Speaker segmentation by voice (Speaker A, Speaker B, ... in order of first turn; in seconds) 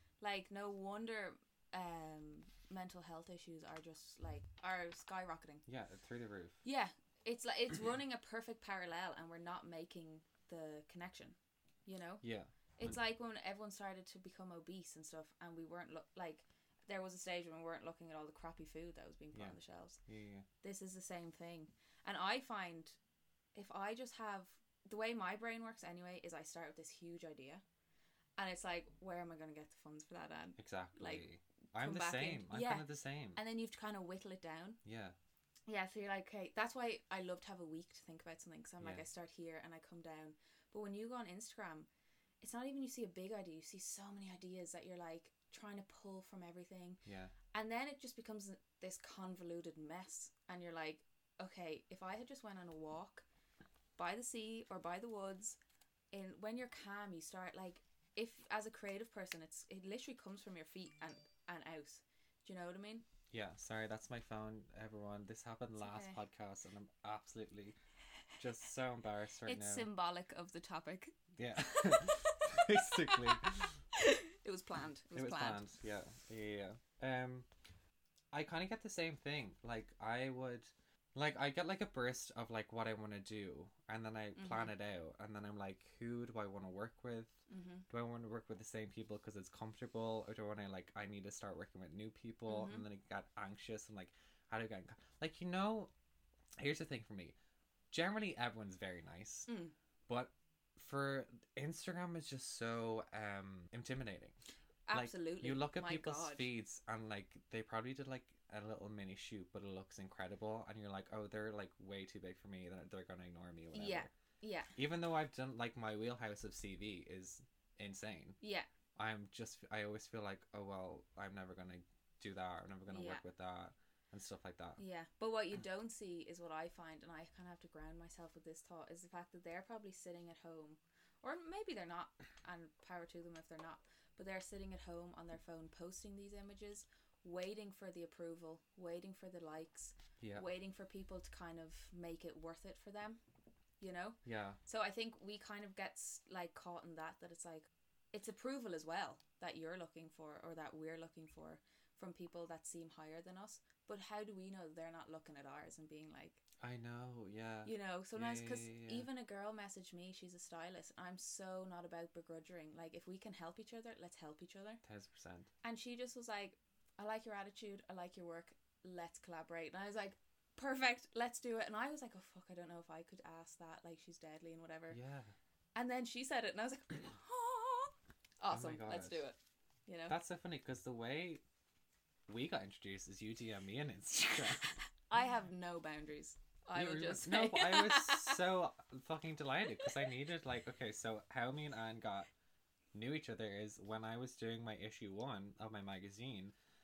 Speaker A: 0.2-5.6, 6.6-12.2, 12.8-20.0, 20.6-23.0, 23.5-27.6, 28.4-34.8, 35.7-41.9, 42.4-47.0, 47.5-53.2, 54.0-55.6, 56.1-63.0, 65.8-66.2, 69.5-73.4, 73.9-75.6, 84.3-84.7, 87.5-87.8, 92.5-92.8, 99.5-99.7, 104.9-106.5, 113.7-114.7, 118.4-118.7, 122.9-123.2, 124.8-143.2, 143.8-156.4, 157.6-164.8, 165.6-175.0, 175.7-180.2, 184.3-188.4
Speaker B: 5.7-6.6, 12.2-12.9, 19.3-20.5, 30.6-33.4, 34.8-35.1, 38.8-39.0, 47.0-47.3, 63.3-67.8, 68.4-69.9, 71.4-73.7, 75.1-77.5, 78.3-95.9, 96.6-97.3, 97.9-99.5, 100.1-104.3, 104.9-114.1, 114.8-118.4, 119.0-124.8, 140.2-140.4, 144.2-144.6, 156.6-159.1, 164.8-165.5, 174.9-175.3, 178.5-179.2, 180.1-181.4, 182.3-184.8, 186.7-192.3, 192.9-196.5